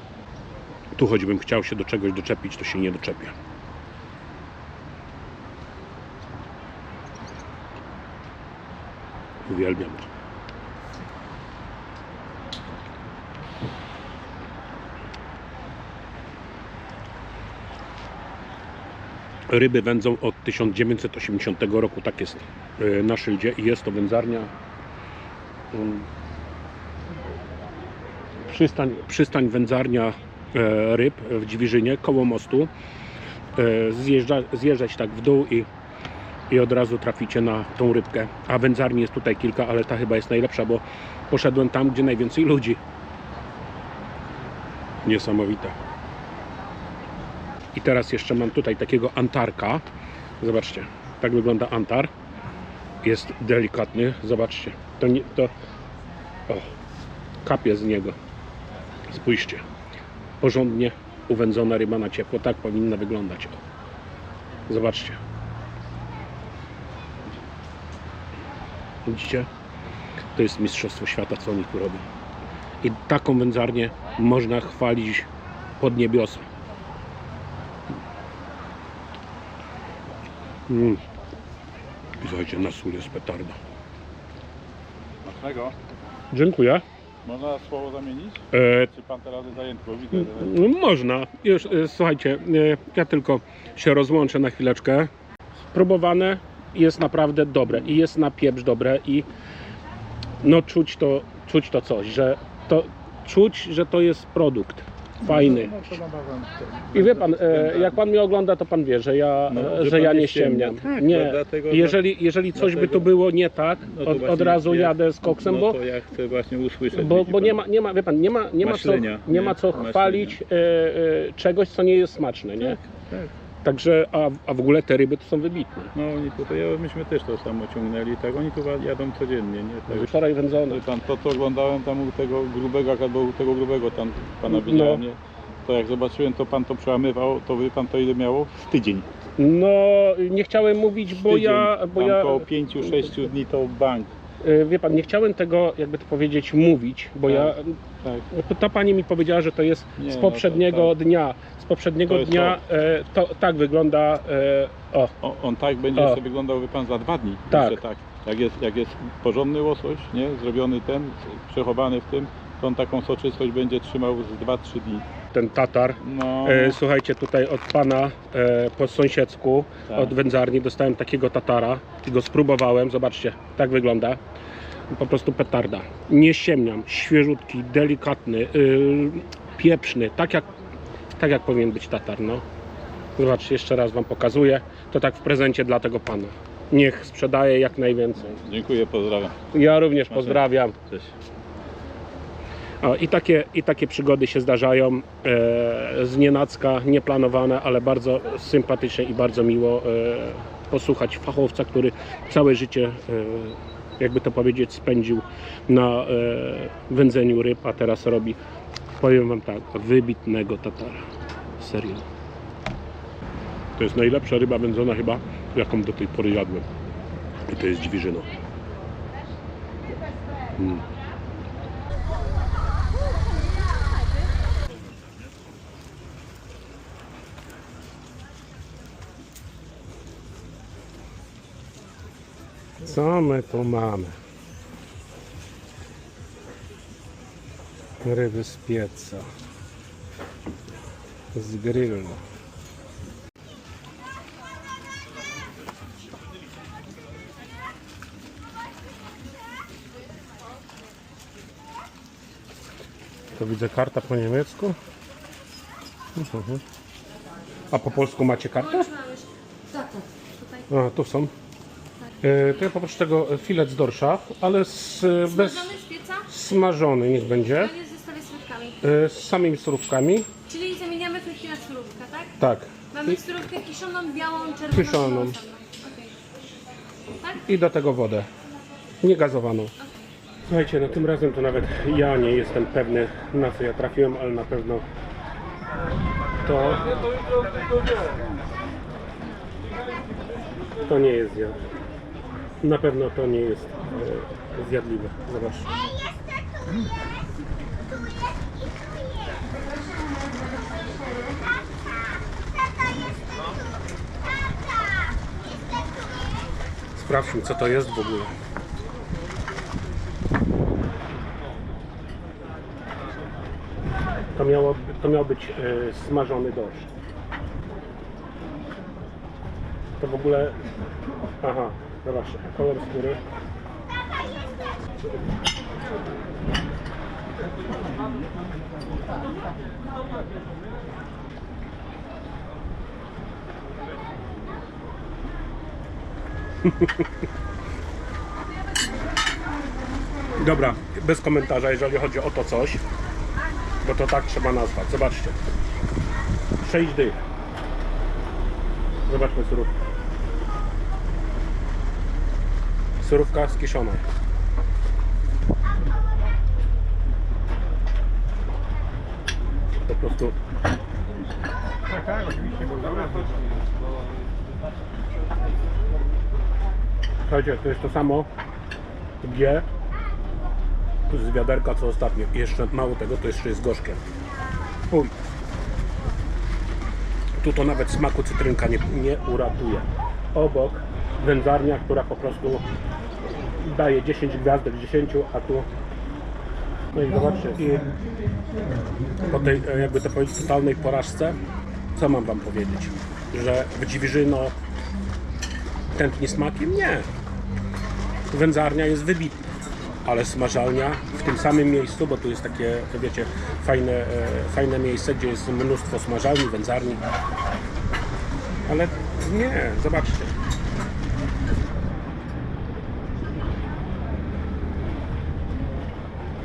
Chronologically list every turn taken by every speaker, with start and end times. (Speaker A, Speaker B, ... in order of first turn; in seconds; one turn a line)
Speaker A: 0.9-3.3
Speaker A: 9.5-10.1
Speaker A: 19.5-24.5
Speaker A: 25.7-26.1
Speaker A: 28.4-32.7
Speaker A: 33.5-35.7
Speaker A: 36.5-42.8
Speaker A: 45.0-45.7
Speaker A: 47.7-49.8
Speaker A: 50.4-52.1
Speaker A: 53.0-55.5
Speaker A: 57.4-58.1
Speaker A: 59.1-59.6
Speaker A: 60.4-63.6
Speaker A: 64.7-65.2
Speaker A: 69.0-69.5
Speaker A: 70.3-72.0
Speaker A: 72.8-75.3
Speaker A: 75.8-76.4
Speaker A: 80.7-81.0
Speaker A: 82.2-83.5
Speaker B: 85.2-85.7
Speaker A: 86.3-86.8
Speaker B: 87.2-90.6
Speaker A: 88.5-88.9
Speaker A: 90.2-95.1
Speaker A: 95.7-99.3
Speaker A: 100.4-105.8
Speaker B: 105.2-108.0
Speaker A: 106.9-115.8
Speaker B: 109.5-112.0
Speaker B: 112.5-113.1
Speaker B: 113.9-117.6
Speaker A: 116.9-122.8
Speaker B: 118.6-120.4
Speaker B: 122.6-123.3
Speaker A: 123.6-125.9
Speaker B: 125.9-130.2
Speaker A: 129.9-130.8
Speaker B: 130.7-139.1
Speaker A: 134.5-135.0
Speaker A: 139.4-142.5
Speaker B: 141.1-144.1
Speaker A: 144.4-155.2
Speaker B: 147.3-148.2
Speaker B: 150.0-150.9
Speaker B: 152.1-152.6
Speaker B: 155.2-165.1
Speaker A: 157.5-157.8
Speaker A: 165.3-174.2
Speaker B: 166.0-166.8
Speaker A: 174.9-180.5
Speaker A: 181.2-182.4
Speaker A: 183.2-188.4
Speaker B: 188.4-189.4
Speaker A: 189.5-190.8
Speaker B: 190.1-191.1
Speaker A: 192.8-208.4
Speaker A: 209.0-211.0
Speaker A: 211.6-212.1
Speaker A: 213.8-216.6
Speaker A: 217.4-218.3
Speaker A: 232.8-234.1
Speaker A: 238.0-239.2
Speaker A: 241.3-242.2
Speaker A: 253.3-254.8
Speaker A: 256.1-256.6
Speaker A: 257.7-258.9
Speaker C: 258.7-260.6
Speaker A: 260.7-261.3
Speaker A: 262.2-265.7
Speaker C: 265.3-266.2
Speaker A: 266.2-267.8
Speaker C: 267.6-268.8
Speaker A: 268.8-270.3
Speaker C: 270.5-272.3
Speaker A: 272.4-273.2
Speaker C: 272.9-276.1
Speaker A: 274.7-275.4
Speaker A: 277.3-278.3
Speaker A: 279.0-279.7
Speaker A: 280.5-284.8
Speaker A: 286.4-287.0
Speaker A: 290.8-291.6
Speaker A: 292.6-295.7
Speaker A: 306.9-308.3
Speaker A: 314.3-316.9
Speaker A: 320.0-320.6
Speaker A: 321.4-323.2
Speaker A: 340.4-342.8
Speaker A: 343.8-345.4
Speaker A: 346.6-347.2
Speaker A: 349.1-349.7
Speaker A: 353.0-354.0
Speaker A: 359.9-360.4
Speaker A: 367.2-368.3
Speaker A: 369.2-369.6
Speaker A: 371.1-374.0
Speaker A: 374.9-375.1
Speaker A: 377.4-382.6
Speaker A: 383.6-385.7
Speaker A: 386.9-387.9
Speaker A: 389.3-391.4
Speaker A: 391.9-394.5
Speaker A: 395.9-397.1
Speaker A: 398.3-399.4
Speaker A: 400.0-407.0
Speaker A: 408.6-410.3